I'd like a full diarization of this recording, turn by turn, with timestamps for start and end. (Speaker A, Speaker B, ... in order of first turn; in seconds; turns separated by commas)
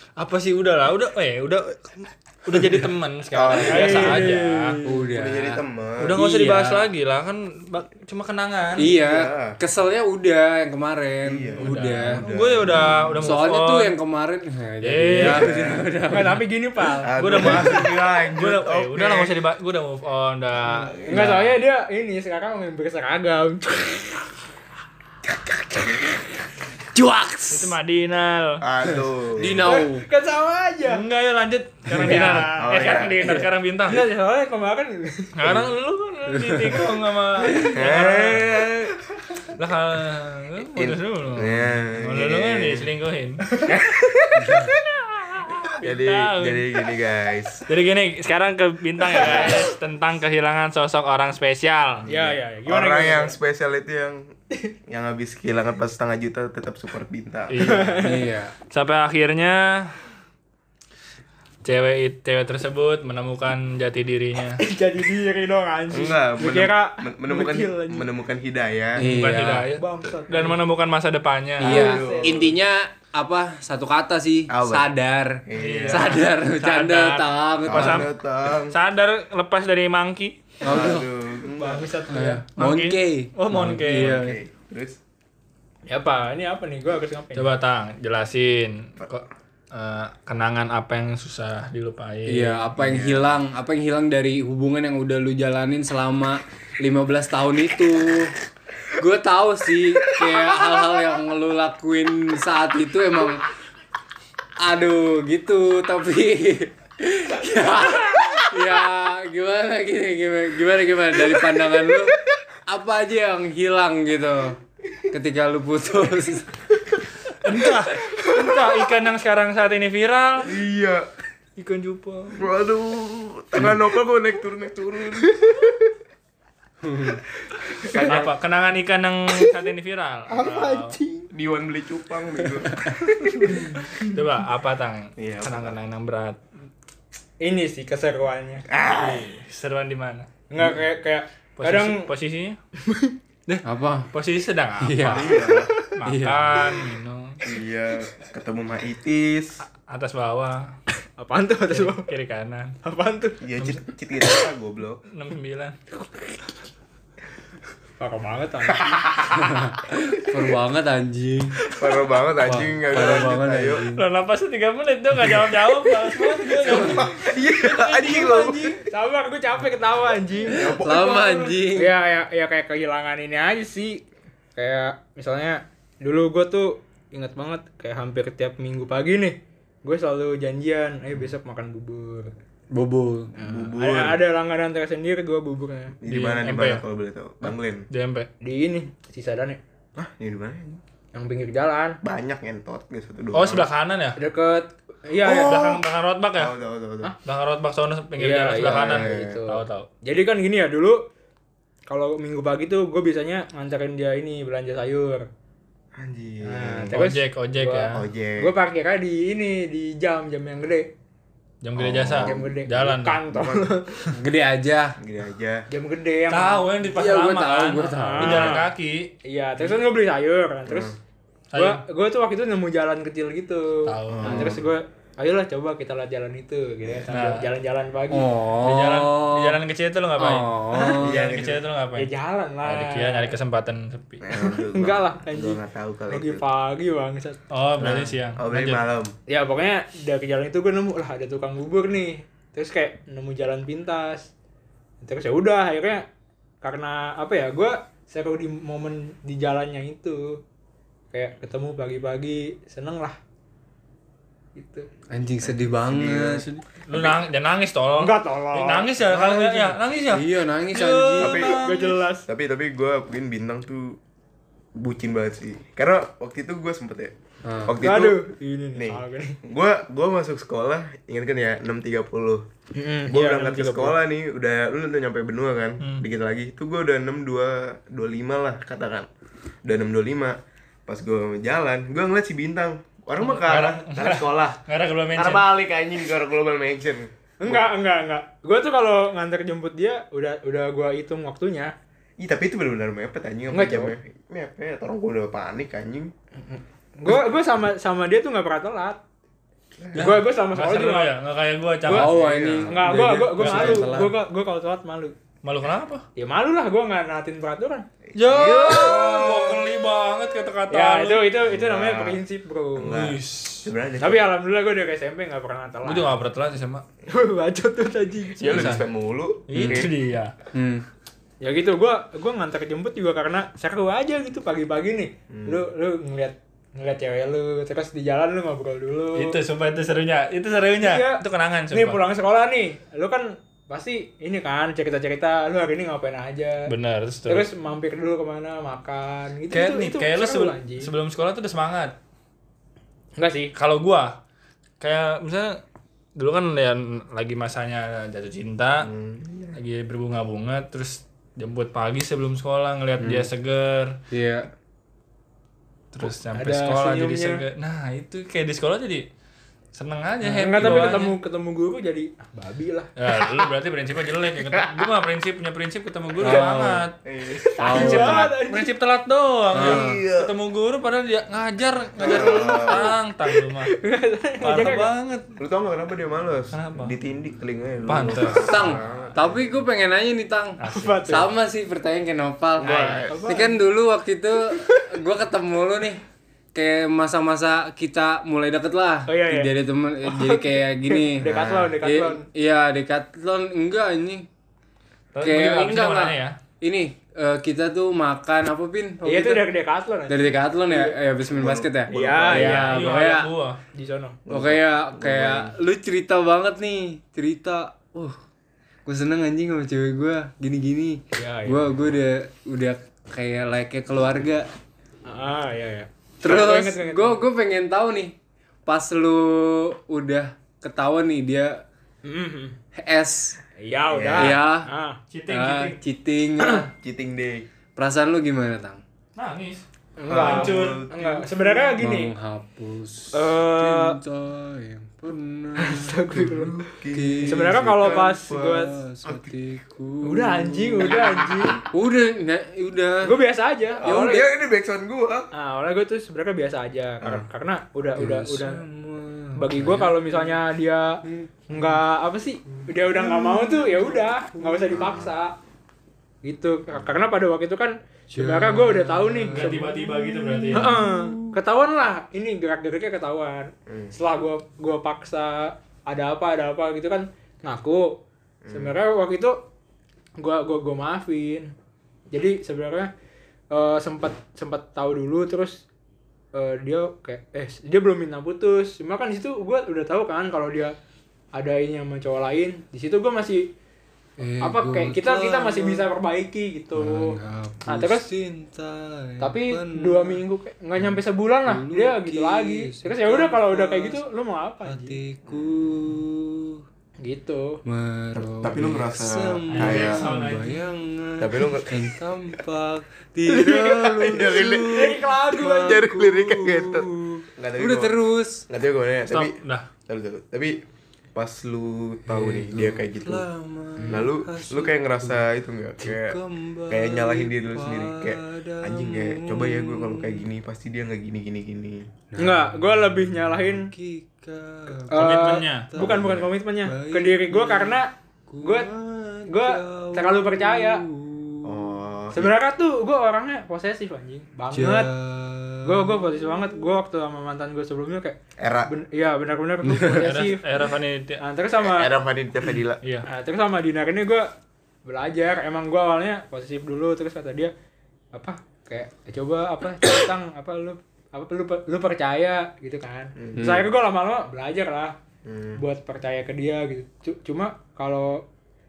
Speaker A: 0.2-4.8, Speaker B: 3.3-4.4, Speaker C: 3.6-5.0, Speaker D: 4.8-5.6, Speaker B: 5.1-6.2, Speaker A: 6.0-8.9, Speaker D: 6.1-6.9, Speaker D: 8.8-12.2, Speaker B: 8.8-9.6, Speaker B: 11.2-13.4, Speaker A: 11.6-13.9, Speaker D: 13.2-16.4, Speaker A: 14.8-15.5, Speaker B: 15.2-15.9, Speaker C: 16.1-17.6, Speaker B: 17.0-19.3, Speaker A: 17.2-21.5, Speaker B: 20.6-21.3, Speaker C: 21.1-24.2, Speaker D: 26.9-27.8, Speaker A: 27.5-28.6, Speaker B: 28.6-29.8, Speaker D: 29.4-30.1, Speaker C: 29.6-31.1, Speaker A: 30.9-34.1, Speaker D: 31.9-32.5, Speaker C: 32.0-33.0, Speaker B: 32.6-33.4, Speaker D: 33.2-33.5, Speaker C: 33.9-35.3, Speaker A: 35.4-38.6, Speaker B: 35.4-35.7, Speaker D: 36.3-36.8, Speaker B: 37.6-38.9, Speaker A: 39.6-43.5, Speaker B: 40.8-42.9, Speaker B: 43.7-44.7, Speaker D: 44.4-44.7, Speaker A: 45.4-46.7, Speaker B: 45.5-47.6, Speaker A: 47.7-52.1, Speaker B: 49.1-49.6, Speaker B: 52.0-54.3, Speaker C: 52.1-53.4, Speaker B: 54.9-57.9, Speaker A: 57.5-58.1, Speaker C: 57.6-58.3, Speaker D: 58.0-58.5, Speaker A: 58.6-60.0, Speaker A: 61.6-64.6, Speaker C: 64.6-68.1, Speaker B: 65.9-69.1, Speaker D: 69.0-69.7, Speaker A: 69.0-71.9, Speaker C: 69.7-70.6, Speaker D: 71.6-78.1, Speaker C: 71.6-72.5, Speaker B: 71.6-72.6, Speaker B: 74.5-74.9, Speaker B: 75.5-76.3, Speaker A: 75.5-78.1, Speaker B: 77.7-78.8, Speaker A: 78.7-80.5, Speaker D: 80.6-81.1, Speaker B: 80.6-81.9, Speaker C: 81.5-82.4, Speaker D: 82.1-84.4, Speaker A: 82.6-84.2, Speaker B: 83.9-85.0, Speaker C: 85.9-87.5, Speaker A: 87.3-92.7, Speaker D: 92.3-98.3, Speaker B: 92.8-93.3, Speaker D: 99.0-103.4, Speaker D: 104.6-114.6, Speaker D: 115.1-116.5, Speaker A: 117.4-120.5, Speaker B: 118.4-118.7, Speaker B: 120.4-121.0, Speaker A: 121.6-122.5, Speaker B: 122.3-125.9, Speaker D: 126.8-127.2, Speaker B: 127.8-128.3, Speaker A: 127.9-131.0, Speaker C: 130.3-131.3, Speaker B: 131.3-133.6, Speaker C: 133.2-134.0, Speaker A: 133.5-136.4, Speaker B: 135.2-135.8, Speaker C: 137.4-138.7, Speaker B: 138.7-139.4, Speaker A: 138.9-140.3, Speaker C: 140.5-142.1, Speaker A: 141.6-142.6, Speaker C: 142.8-143.2, Speaker A: 143.5-147.4, Speaker D: 143.7-144.1, Speaker D: 144.8-145.4, Speaker B: 145.1-145.7, Speaker D: 146.1-146.9, Speaker B: 147.4-149.6, Speaker A: 149.8-150.7, Speaker C: 151.2-152.1, Speaker A: 151.7-152.8, Speaker C: 152.8-153.7, Speaker B: 153.4-155.0, Speaker A: 155.1-155.8, Speaker C: 158.0-159.1, Speaker B: 158.9-159.4, Speaker D: 159.3-161.6, Speaker B: 161.7-163.9, Speaker D: 162.4-164.0, Speaker A: 163.9-167.2, Speaker B: 166.6-168.8, Speaker C: 166.7-170.7, Speaker A: 168.1-168.4, Speaker B: 170.5-171.6, Speaker D: 170.6-171.9, Speaker C: 171.7-174.0, Speaker C: 174.6-182.3, Speaker D: 182.7-183.3, Speaker C: 183.4-186.0, Speaker B: 183.4-184.2, Speaker B: 186.0-187.9, Speaker A: 186.1-186.8, Speaker A: 187.9-188.3, Speaker C: 188.4-189.6, Speaker B: 190.0-190.8, Speaker C: 191.1-192.0, Speaker B: 192.0-193.7, Speaker A: 193.3-194.2, Speaker C: 194.2-195.6, Speaker B: 195.2-195.8, Speaker A: 195.2-196.5, Speaker B: 196.4-197.1, Speaker A: 197.2-199.9, Speaker C: 198.2-201.0, Speaker B: 198.7-199.4, Speaker C: 201.9-205.3, Speaker B: 206.0-207.0, Speaker C: 206.4-210.9, Speaker A: 206.9-208.1, Speaker B: 207.9-208.5, Speaker A: 211.6-213.2, Speaker B: 211.8-212.5, Speaker C: 212.2-214.0, Speaker B: 213.3-213.7, Speaker D: 214.1-214.9, Speaker B: 215.0-215.7, Speaker C: 215.7-216.7, Speaker A: 216.3-219.1, Speaker D: 216.8-218.6, Speaker C: 218.0-218.7, Speaker C: 219.2-220.9, Speaker B: 220.7-221.0, Speaker A: 221.5-221.8, Speaker C: 221.6-228.3, Speaker A: 223.9-224.5, Speaker B: 224.1-224.6, Speaker A: 227.1-227.4, Speaker D: 228.1-229.6, Speaker A: 228.6-232.1, Speaker D: 230.2-231.2, Speaker C: 230.7-231.0, Speaker B: 231.0-231.7, Speaker C: 232.0-233.3, Speaker A: 232.6-234.2, Speaker B: 234.2-236.4, Speaker C: 234.3-237.4, Speaker A: 237.5-238.8, Speaker B: 237.8-239.1, Speaker C: 239.3-244.3, Speaker C: 245.0-246.1, Speaker C: 246.6-250.4, Speaker C: 251.1-253.2, Speaker C: 254.6-254.9, Speaker D: 255.1-256.5, Speaker B: 255.4-257.2, Speaker A: 256.9-262.0, Speaker C: 257.9-259.7, Speaker B: 259.2-259.6, Speaker D: 260.1-261.4, Speaker B: 261.2-261.6, Speaker C: 261.5-262.3, Speaker B: 262.3-264.0, Speaker B: 264.8-267.1, Speaker D: 267.4-267.8, Speaker B: 267.6-268.2, Speaker C: 267.8-269.4, Speaker B: 268.8-272.4, Speaker C: 272.8-274.0, Speaker B: 273.1-279.1, Speaker B: 279.6-280.4, Speaker B: 280.9-284.6, Speaker A: 283.2-285.5, Speaker B: 285.1-287.6, Speaker C: 287.4-291.7, Speaker B: 292.2-296.1, Speaker C: 293.5-293.9, Speaker C: 296.4-299.0, Speaker B: 299.8-300.1, Speaker A: 299.9-302.1, Speaker C: 300.0-301.2, Speaker D: 301.9-303.9, Speaker B: 302.0-304.1, Speaker C: 302.7-305.1, Speaker A: 303.4-303.9, Speaker A: 305.4-306.1, Speaker C: 306.2-307.9, Speaker B: 308.1-309.7, Speaker A: 308.2-311.3, Speaker C: 310.7-313.0, Speaker B: 311.5-312.2, Speaker B: 312.8-314.3, Speaker A: 312.9-313.7, Speaker C: 314.0-316.2, Speaker A: 315.8-316.8, Speaker C: 317.1-318.8, Speaker B: 318.4-319.9, Speaker A: 318.4-318.8, Speaker A: 319.5-320.4, Speaker D: 319.5-319.9, Speaker D: 320.5-320.8, Speaker C: 321.4-329.4, Speaker B: 325.3-325.6, Speaker A: 329.2-332.0, Speaker C: 330.8-336.7, Speaker A: 336.7-337.5, Speaker C: 337.3-340.9, Speaker A: 339.5-342.0, Speaker C: 343.2-343.5, Speaker A: 343.6-344.2, Speaker A: 344.8-345.6, Speaker A: 346.2-348.9, Speaker B: 348.8-349.6, Speaker A: 349.5-354.0, Speaker D: 353.0-353.3, Speaker D: 354.1-354.5, Speaker A: 355.9-359.1, Speaker C: 356.3-357.4, Speaker A: 359.8-361.2, Speaker C: 360.2-362.9, Speaker A: 363.0-366.9, Speaker B: 364.4-364.8, Speaker D: 366.2-366.9, Speaker B: 367.1-367.6, Speaker C: 367.4-368.7, Speaker D: 367.6-368.3, Speaker A: 367.6-373.7, Speaker D: 369.5-370.0, Speaker B: 369.5-370.3, Speaker B: 372.0-373.0, Speaker C: 372.0-374.9, Speaker A: 374.4-375.3, Speaker B: 375.4-379.6, Speaker A: 376.5-376.9, Speaker A: 377.9-379.2, Speaker D: 378.1-386.0, Speaker A: 380.6-381.0, Speaker C: 380.6-381.3, Speaker B: 382.6-383.2, Speaker C: 383.1-383.6, Speaker D: 386.6-391.3, Speaker C: 389.1-389.5, Speaker C: 390.0-392.3, Speaker B: 391.2-391.8, Speaker D: 391.8-394.3, Speaker A: 395.1-396.4, Speaker D: 395.2-399.5, Speaker C: 399.0-401.0, Speaker D: 400.1-403.3, Speaker B: 401.3-402.7, Speaker C: 401.9-402.8, Speaker A: 402.4-403.6, Speaker C: 403.7-404.2, Speaker B: 404.3-405.6, Speaker D: 404.3-408.2, Speaker D: 408.9-414.5, Speaker C: 411.1-411.7, Speaker C: 415.1-417.2, Speaker D: 416.2-418.1, Speaker D: 418.7-421.6, Speaker C: 422.1-422.6, Speaker D: 422.8-423.4, Speaker C: 423.6-425.0, Speaker B: 423.9-424.4, Speaker D: 424.2-424.7, Speaker A: 425.1-425.8, Speaker D: 425.3-426.7, Speaker B: 426.7-427.4, Speaker D: 427.8-428.8, Speaker A: 429.2-430.8, Speaker C: 430.0-432.1, Speaker B: 430.1-431.8, Speaker D: 431.8-436.1, Speaker C: 433.1-434.0, Speaker C: 435.6-436.6, Speaker B: 436.1-438.4, Speaker D: 436.9-441.2, Speaker C: 437.2-438.7, Speaker B: 439.1-439.3, Speaker C: 440.0-441.6, Speaker B: 440.8-441.7, Speaker D: 441.7-443.1, Speaker C: 443.0-444.3, Speaker B: 443.8-445.3, Speaker D: 443.9-444.2, Speaker C: 445.3-448.6, Speaker D: 448.0-450.4, Speaker C: 449.4-455.3, Speaker D: 451.1-451.8, Speaker D: 452.5-455.0, Speaker B: 454.8-455.1, Speaker C: 456.2-459.8, Speaker D: 458.1-461.3, Speaker A: 459.3-460.8, Speaker C: 460.5-468.0, Speaker B: 463.7-463.9, Speaker B: 468.4-468.7, Speaker C: 468.5-469.5, Speaker C: 470.2-471.5, Speaker C: 472.1-472.9, Speaker C: 473.5-475.6, Speaker C: 476.3-480.8, Speaker C: 481.4-483.5, Speaker D: 484.2-485.9, Speaker C: 484.4-488.1, Speaker D: 486.8-490.2, Speaker C: 489.2-495.0, Speaker D: 491.5-494.0, Speaker D: 494.6-496.6, Speaker B: 495.3-495.9, Speaker C: 497.0-497.6, Speaker D: 497.6-508.4, Speaker B: 498.1-500.1, Speaker A: 499.5-500.6, Speaker B: 501.2-502.0, Speaker B: 503.3-505.0, Speaker C: 503.4-505.9, Speaker B: 505.6-508.0, Speaker B: 508.5-510.6, Speaker A: 509.1-509.7, Speaker B: 511.1-513.2, Speaker D: 512.1-515.2, Speaker C: 513.8-514.1, Speaker B: 513.9-521.9, Speaker D: 515.8-520.3, Speaker D: 522.1-531.7, Speaker C: 522.2-523.7, Speaker C: 524.9-527.9, Speaker A: 524.9-525.7, Speaker B: 525.9-526.1, Speaker C: 528.4-528.7, Speaker C: 529.3-530.8, Speaker B: 531.4-532.4, Speaker C: 532.1-534.9, Speaker D: 534.5-536.6, Speaker C: 535.6-540.5, Speaker B: 538.4-538.7, Speaker D: 539.6-540.1, Speaker A: 540.0-541.2, Speaker C: 541.2-541.9, Speaker B: 541.6-542.8, Speaker C: 543.1-544.3, Speaker C: 544.9-547.5, Speaker C: 548.1-555.0, Speaker D: 553.4-553.6, Speaker B: 555.2-555.6, Speaker C: 555.6-558.2